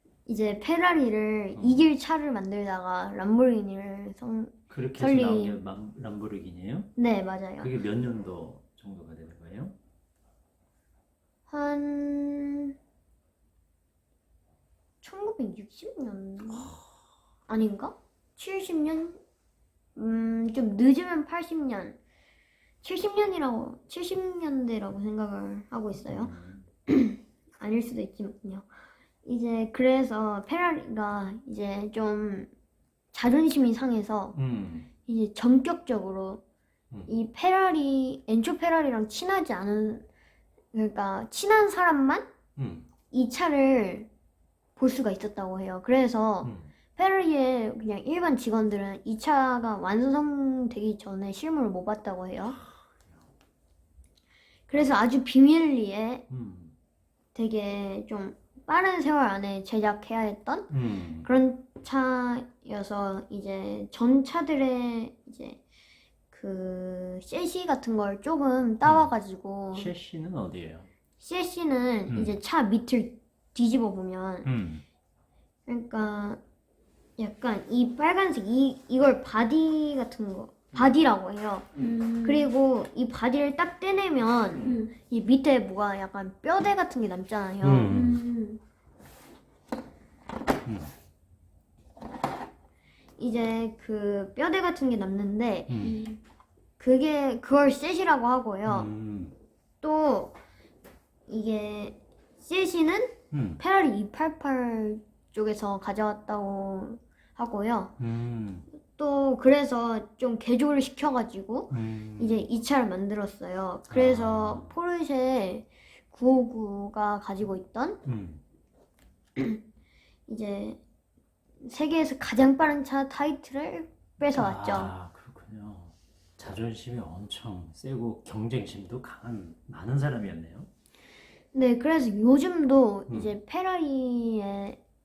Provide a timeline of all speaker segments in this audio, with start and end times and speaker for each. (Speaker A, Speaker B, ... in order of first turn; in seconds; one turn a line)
Speaker A: 0.2-5.6
Speaker B: 1.5-1.9
Speaker B: 4.7-6.9
Speaker A: 7.0-7.7
Speaker B: 7.6-9.7
Speaker A: 11.5-12.7
Speaker A: 15.0-16.7
Speaker B: 16.5-16.8
Speaker A: 17.5-19.2
Speaker A: 19.9-22.0
Speaker A: 22.8-26.3
Speaker B: 26.1-26.6
Speaker A: 26.9-28.7
Speaker A: 29.2-32.5
Speaker A: 33.1-34.4
Speaker B: 34.3-34.9
Speaker A: 35.0-36.4
Speaker A: 37.1-40.0
Speaker A: 40.7-42.2
Speaker B: 42.5-42.9
Speaker A: 43.1-44.1
Speaker A: 44.8-52.6
Speaker B: 46.4-46.7
Speaker B: 52.6-53.2
Speaker A: 54.7-56.2
Speaker B: 56.3-56.7
Speaker A: 57.3-60.7
Speaker B: 60.7-61.3
Speaker A: 61.2-65.6
Speaker A: 66.3-69.9
Speaker B: 68.8-69.1
Speaker B: 69.7-70.9
Speaker A: 71.2-74.5
Speaker B: 72.1-72.4
Speaker B: 74.4-74.8
Speaker A: 75.7-76.4
Speaker A: 77.2-81.7
Speaker C: 81.7-82.5
Speaker A: 82.2-88.0
Speaker C: 84.6-84.9
Speaker B: 87.6-88.2
Speaker C: 87.9-88.6
Speaker B: 90.7-90.9
Speaker A: 93.2-95.9
Speaker B: 95.7-96.0
Speaker C: 95.8-96.2
Speaker A: 96.8-98.9
Speaker B: 98.6-99.3
Speaker A: 99.8-100.4
Speaker A: 101.3-107.9
Speaker B: 103.3-103.6
Speaker B: 108.0-108.7
Speaker A: 109.0-118.0
Speaker B: 111.7-112.5
Speaker B: 113.9-114.7
Speaker B: 118.0-118.4
Speaker A: 120.3-120.8
Speaker A: 121.6-124.9
Speaker B: 124.3-130.7
Speaker A: 131.5-134.8
Speaker B: 133.1-133.3